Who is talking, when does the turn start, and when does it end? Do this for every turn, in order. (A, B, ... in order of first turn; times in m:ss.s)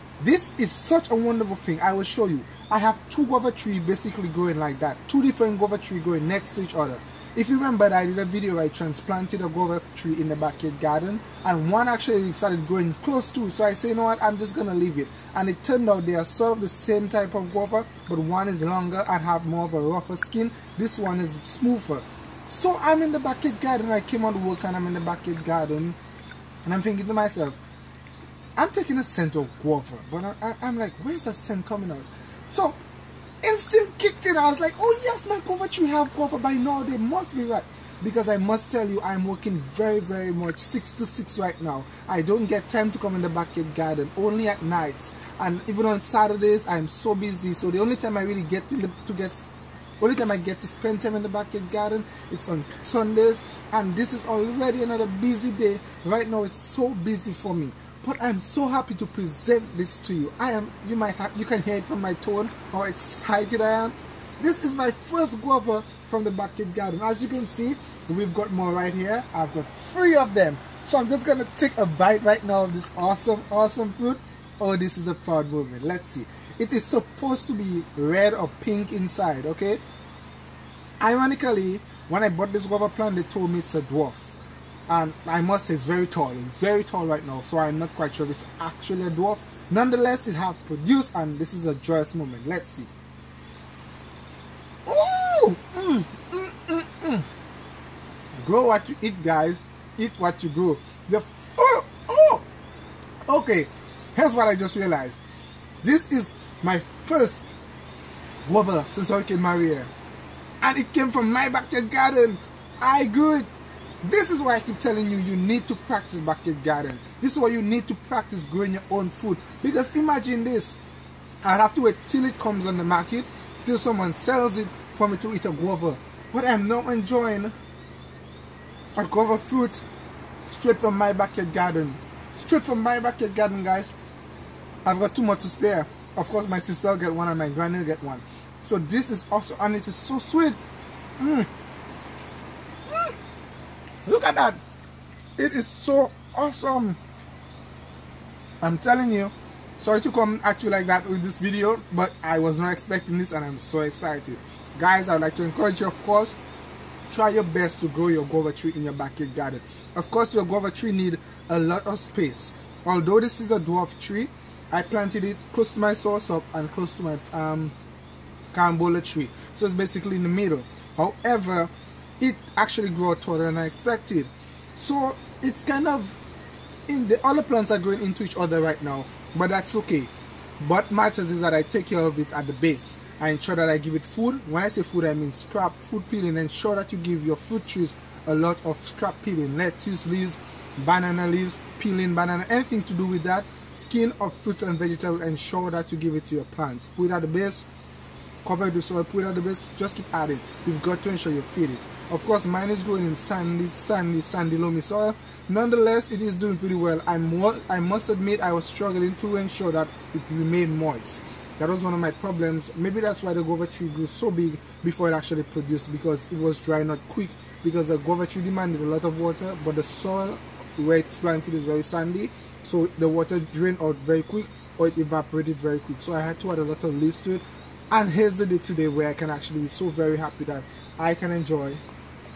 0:00.2-0:26.0 A
0:26.6-0:27.6 A
0:28.6-0:32.8 A
0:33.4-0:49.5 A
0:50.0-1:19.8 A
1:21.0-1:24.3 A
1:24.9-1:32.9 A
1:34.8-1:37.3 A
1:38.4-1:42.4 A
1:43.3-1:45.2 A
1:45.8-1:47.5 A
1:48.4-1:49.9 A
1:50.6-1:53.5 A
1:54.0-2:00.8 A
2:01.4-2:07.5 A
2:08.9-2:09.8 A
2:10.5-2:13.9 A
2:14.8-2:20.6 A
2:21.2-2:21.5 A
2:24.0-2:24.6 A
2:25.4-2:27.0 A
2:28.6-2:36.4 A
2:37.1-2:47.7 A
2:48.5-2:56.2 A
2:56.9-3:17.6 A
3:18.4-3:51.8 A